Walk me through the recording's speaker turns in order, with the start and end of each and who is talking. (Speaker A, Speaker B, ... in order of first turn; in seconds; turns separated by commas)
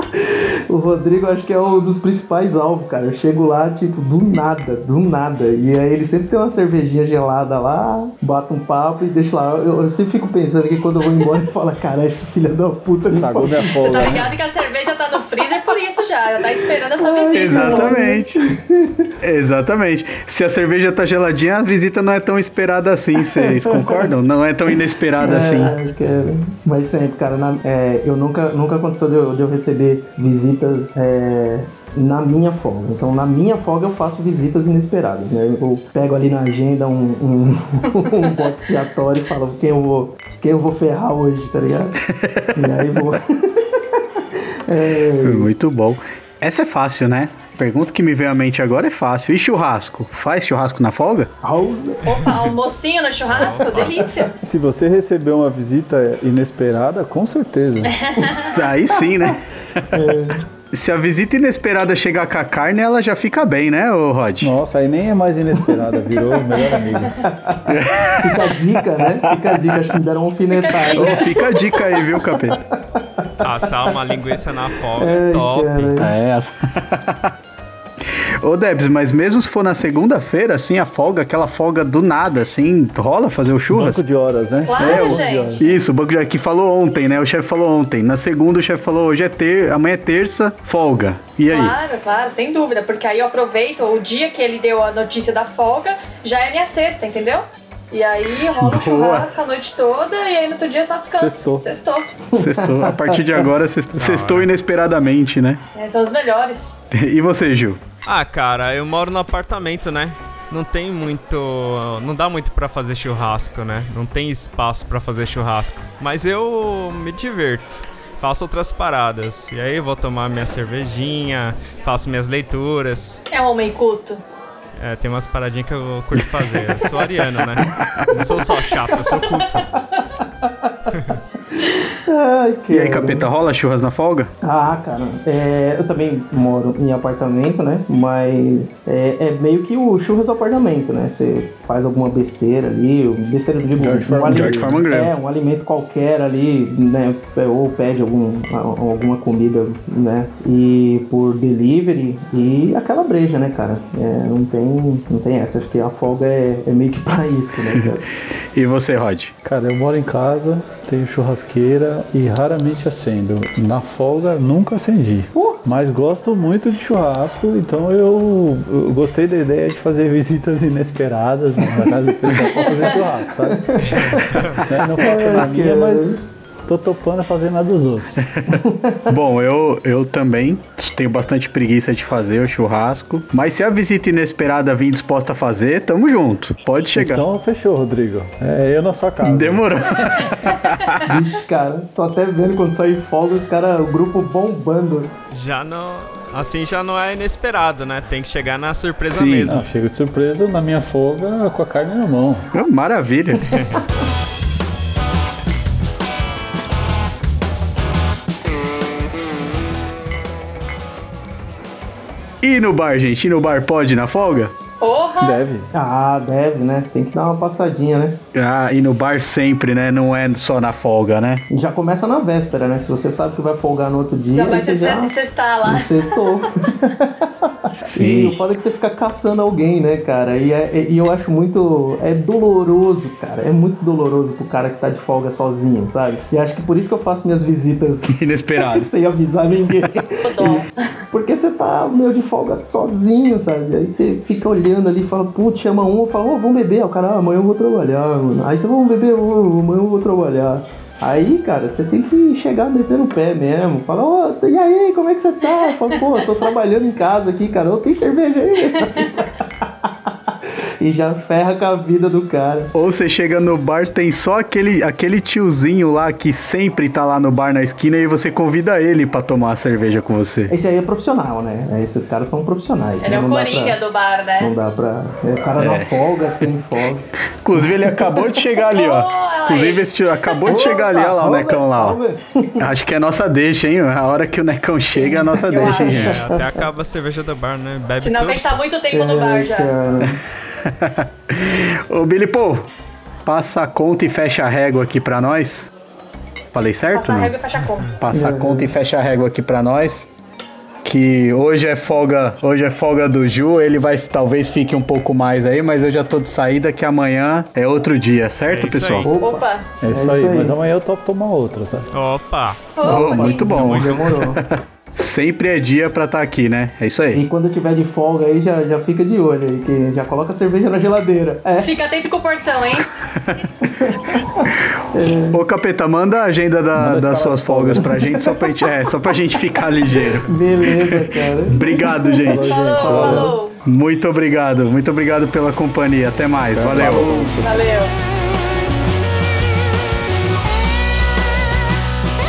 Speaker A: 0.1-14.0, Speaker B: 13.1-14.3, Speaker C: 13.8-18.0, Speaker A: 16.5-19.1, Speaker D: 17.3-18.4, Speaker D: 19.2-25.8, Speaker A: 23.1-24.1, Speaker A: 25.2-42.0, Speaker D: 42.1-42.8, Speaker A: 42.5-45.5, Speaker D: 45.2-51.3, Speaker A: 51.4-52.2, Speaker C: 52.1-54.4, Speaker E: 53.3-54.0, Speaker A: 54.0-54.2, Speaker B: 54.4-58.0, Speaker C: 57.9-58.5, Speaker D: 58.5-64.5, Speaker A: 58.8-59.4, Speaker A: 59.9-60.5, Speaker B: 64.4-67.2, Speaker A: 65.5-71.5, Speaker D: 67.7-68.4, Speaker D: 69.3-69.7, Speaker C: 70.5-71.3, Speaker D: 70.9-72.5, Speaker A: 72.0-73.7, Speaker E: 73.4-76.0, Speaker A: 75.0-76.1, Speaker D: 76.0-77.3, Speaker D: 78.4-84.0, Speaker B: 83.7-85.6, Speaker C: 84.6-85.7, Speaker D: 85.6-91.8, Speaker C: 91.5-102.2, Speaker D: 98.6-99.3, Speaker B: 101.1-101.7, Speaker A: 102.3-103.5, Speaker D: 102.3-105.6, Speaker E: 104.0-104.5, Speaker C: 105.8-106.8, Speaker D: 106.9-107.8, Speaker E: 108.0-123.2, Speaker C: 123.3-124.2, Speaker E: 124.8-129.7, Speaker D: 127.6-128.1, Speaker A: 130.0-133.3, Speaker D: 132.7-134.3, Speaker A: 134.4-158.1, Speaker B: 143.8-144.8, Speaker D: 144.4-145.1, Speaker D: 158.6-159.3, Speaker B: 159.4-173.8, Speaker A: 165.3-165.6, Speaker A: 171.6-172.7, Speaker C: 172.5-172.9, Speaker A: 173.4-174.2, Speaker E: 173.9-174.6, Speaker B: 174.6-178.3, Speaker A: 175.0-176.2, Speaker D: 178.2-187.2, Speaker A: 178.5-179.0, Speaker B: 186.9-189.7, Speaker D: 189.2-191.2, Speaker A: 191.0-195.1, Speaker E: 195.3-199.7, Speaker D: 199.1-199.6, Speaker B: 199.5-202.5, Speaker D: 202.5-203.5, Speaker E: 203.5-203.9, Speaker D: 212.4-214.5, Speaker C: 214.8-215.4, Speaker B: 215.2-215.7, Speaker A: 215.7-218.2, Speaker D: 218.3-221.4, Speaker A: 221.5-262.7, Speaker C: 224.3-226.2, Speaker D: 227.8-228.4, Speaker D: 238.1-238.9, Speaker C: 240.3-240.7, Speaker C: 255.4-256.1, Speaker C: 258.7-259.2, Speaker D: 262.7-270.5, Speaker A: 270.5-273.8, Speaker C: 273.0-274.5, Speaker A: 274.4-278.4, Speaker D: 275.6-276.0, Speaker D: 277.4-282.0, Speaker C: 278.6-280.6, Speaker A: 280.5-282.7, Speaker D: 282.6-286.3, Speaker C: 284.9-286.0, Speaker E: 285.7-288.6, Speaker A: 285.9-286.3, Speaker C: 288.0-289.7, Speaker A: 288.9-290.2, Speaker D: 290.6-292.7, Speaker D: 293.3-295.7, Speaker D: 296.5-297.4, Speaker C: 296.9-298.0, Speaker D: 298.0-300.1, Speaker A: 298.1-298.7, Speaker D: 300.8-309.1, Speaker E: 308.5-309.1, Speaker A: 309.0-310.6, Speaker C: 309.2-309.7, Speaker B: 309.8-311.9, Speaker E: 311.9-312.7, Speaker C: 312.8-313.6, Speaker D: 312.8-314.1, Speaker A: 312.8-314.4, Speaker E: 313.5-314.3, Speaker D: 314.9-317.2, Speaker A: 317.1-321.7, Speaker C: 321.6-322.9, Speaker D: 323.2-323.4, Speaker A: 323.6-325.4, Speaker D: 325.3-332.5, Speaker B: 326.8-327.9, Speaker A: 327.8-328.4, Speaker A: 330.2-333.4, Speaker B: 332.2-333.3, Speaker C: 332.3-333.6, Speaker D: 333.6-337.2, Speaker B: 336.4-337.6, Speaker C: 337.4-337.9